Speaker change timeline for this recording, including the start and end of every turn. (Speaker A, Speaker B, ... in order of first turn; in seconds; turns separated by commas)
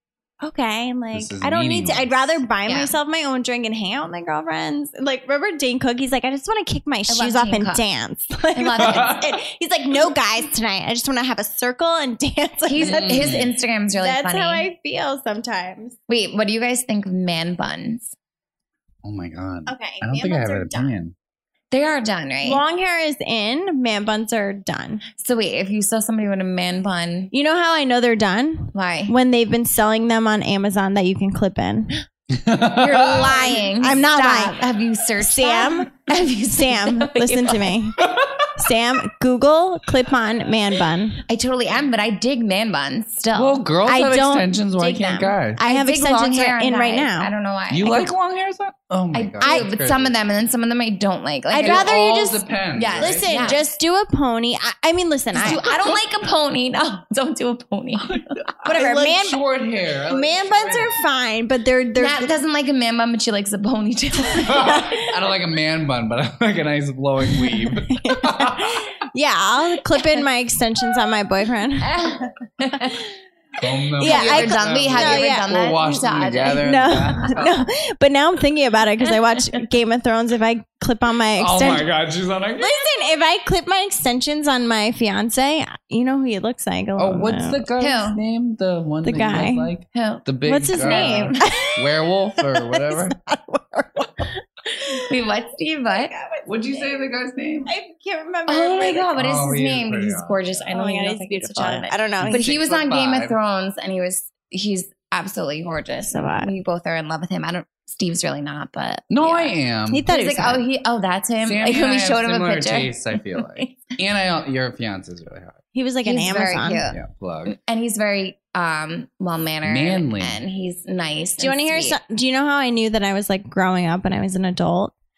Speaker A: 0.4-13.4, Speaker B: 1.1-2.4, Speaker C: 2.7-2.9, Speaker C: 7.1-7.8, Speaker C: 8.6-9.3, Speaker B: 8.8-9.3, Speaker C: 12.7-14.7, Speaker B: 12.8-13.5, Speaker A: 14.0-16.0, Speaker C: 16.1-18.1, Speaker B: 19.0-21.1, Speaker A: 19.7-20.9, Speaker C: 21.7-22.6, Speaker A: 22.4-25.0, Speaker C: 25.2-27.3, Speaker A: 27.3-31.9, Speaker C: 28.7-29.1, Speaker B: 32.3-33.3, Speaker A: 32.8-34.6, Speaker C: 32.8-37.7, Speaker A: 35.2-35.9, Speaker A: 36.5-41.2, Speaker B: 38.0-38.5, Speaker C: 41.3-43.6, Speaker B: 43.3-45.6, Speaker A: 43.9-47.3, Speaker C: 45.6-48.1, Speaker B: 47.7-50.2, Speaker C: 49.1-51.9, Speaker A: 49.4-49.7, Speaker A: 51.5-52.4, Speaker B: 51.6-53.6, Speaker C: 52.8-53.6, Speaker A: 53.0-55.6, Speaker B: 55.4-56.0, Speaker C: 55.4-58.4, Speaker B: 58.0-60.9, Speaker A: 58.6-59.4, Speaker A: 60.1-62.3, Speaker C: 62.0-64.8, Speaker A: 64.3-65.1, Speaker B: 64.5-68.8, Speaker A: 67.9-73.1, Speaker C: 71.8-73.0, Speaker B: 73.6-77.7, Speaker A: 74.0-75.5, Speaker C: 74.0-76.7, Speaker A: 76.6-81.9, Speaker B: 81.4-82.9, Speaker A: 82.6-87.7, Speaker B: 87.0-93.2, Speaker C: 87.8-88.2, Speaker A: 89.0-89.7, Speaker C: 89.9-91.4, Speaker A: 90.5-91.8, Speaker A: 92.4-95.2, Speaker C: 94.8-96.1, Speaker A: 95.8-97.0, Speaker B: 96.5-97.7, Speaker A: 97.7-99.2, Speaker C: 98.5-109.6, Speaker B: 99.2-100.5, Speaker A: 100.7-102.5, Speaker B: 102.2-103.4, Speaker A: 106.1-106.5, Speaker B: 109.1-110.0, Speaker A: 109.9-110.7, Speaker C: 110.1-113.7, Speaker B: 111.4-115.6, Speaker A: 115.7-116.8, Speaker C: 116.0-122.0, Speaker B: 116.9-117.5, Speaker B: 119.6-120.4, Speaker A: 121.4-124.9